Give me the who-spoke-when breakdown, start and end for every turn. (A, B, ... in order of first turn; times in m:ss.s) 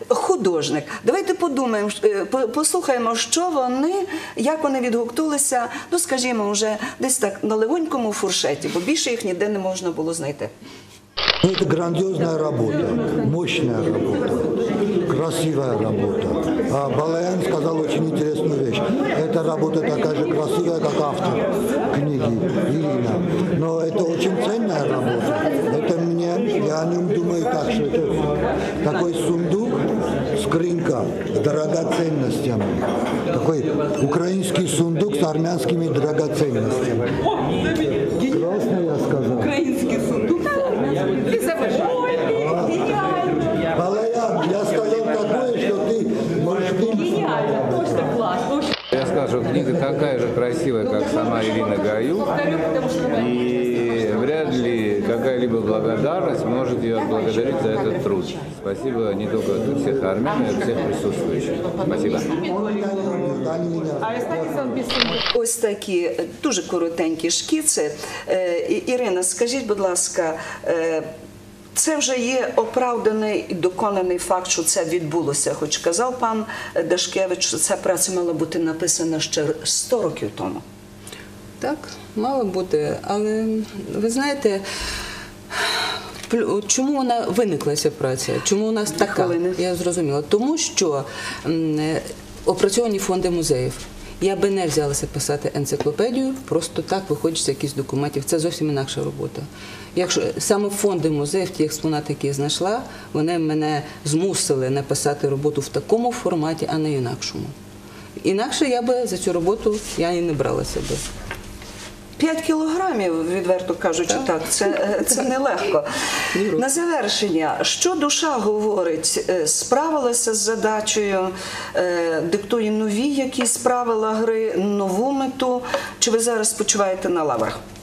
0:00.1-0:10.5 A
0:11.4-0:37.2 B
0:38.1-0:39.6 B
0:39.6-0:41.6 C
0:42.2-0:48.4 B
0:48.9-1:02.4 D
1:02.4-1:05.0 B
1:05.3-1:11.1 A
1:11.8-1:20.6 A
1:21.6-1:24.6 C
1:26.3-1:47.5 C
1:28.9-1:29.6 A
1:48.2-1:51.0 C
1:52.2-1:55.9 A
1:56.3-1:56.7 C
1:56.5-2:07.6 A